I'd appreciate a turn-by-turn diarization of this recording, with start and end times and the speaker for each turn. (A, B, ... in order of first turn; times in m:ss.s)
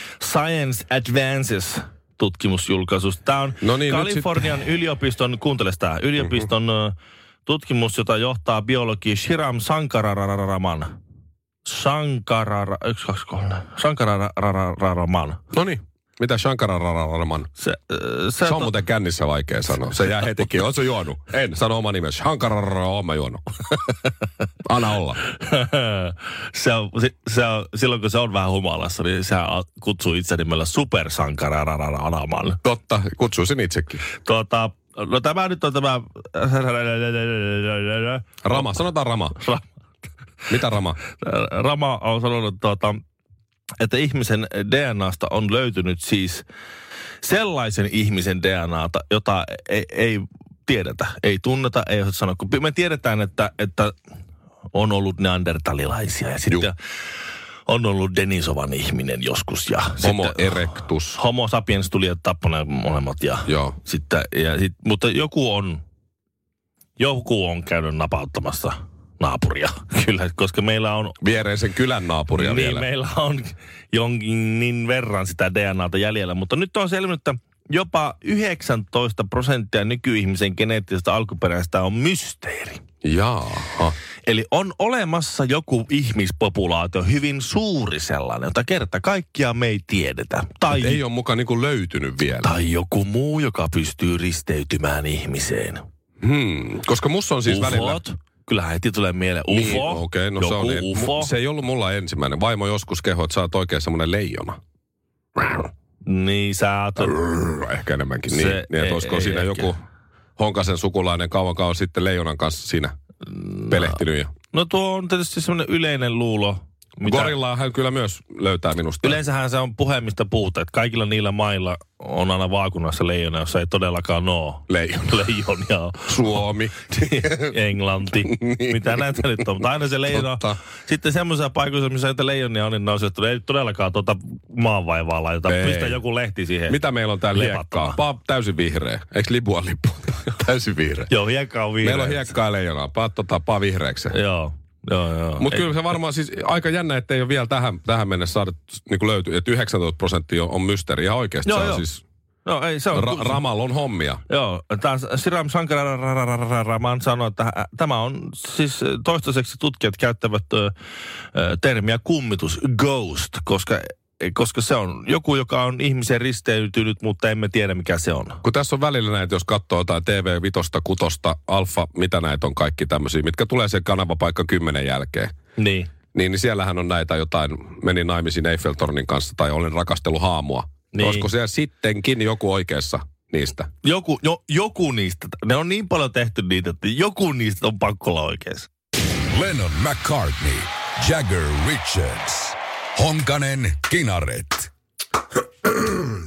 0:00.2-0:10.9 A
0:03.6-0:04.6 B
0:06.2-0:06.5 B
0:11.6-0:15.4 A
0:15.5-0:17.5 B
0:17.6-0:18.7 A
0:18.4-0:23.4 B
0:20.0-0:20.5 A
0:24.6-0:25.2 B
0:25.3-0:32.6 A
0:32.6-0:34.0 B
0:34.2-0:38.7 A
0:38.4-0:39.4 B
0:39.4-0:39.7 A
0:40.5-0:41.0 B
0:41.1-0:43.0 A
0:43.8-0:46.4 A
0:47.2-0:53.9 A
0:54.7-0:56.7 A
0:57.7-1:05.8 A
1:00.0-1:01.2 B
1:03.4-1:03.7 B
1:07.0-1:11.2 A
1:11.2-1:12.8 B
1:12.3-1:22.8 A
1:23.0-1:24.0 B
1:24.2-1:31.0 A
1:30.7-1:32.5 B
1:32.4-1:35.8 A
1:36.2-1:38.0 B
1:37.4-1:41.3 A
1:39.5-1:44.6 B
1:45.4-1:45.7 B
1:46.0-1:47.2 A
1:47.0-1:49.8 B
1:48.3-1:49.7 A
1:50.4-1:52.9 B
1:53.4-1:54.0 A
1:53.7-1:54.3 B
1:54.5-1:57.4 A
1:57.0-1:59.2 B
1:59.0-2:16.8 A
2:04.7-2:05.3 B
2:06.0-2:07.6 B
2:08.2-2:09.5 B
2:10.1-2:10.6 B
2:15.4-2:16.0 B
2:16.7-2:21.1 B
2:17.3-2:18.0 A
2:21.1-2:22.3 A
2:21.8-2:24.2 B
2:24.1-2:25.7 A
2:25.4-2:32.0 B
2:31.4-2:31.8 A
2:32.4-2:33.4 A
2:32.9-2:34.2 B
2:34.3-2:40.7 A
2:41.3-2:48.4 A
2:48.4-2:55.3 B
2:55.6-2:55.9 A
2:56.1-3:03.7 B
3:00.9-3:01.3 A
3:03.8-3:08.7 A
3:09.3-3:14.7 C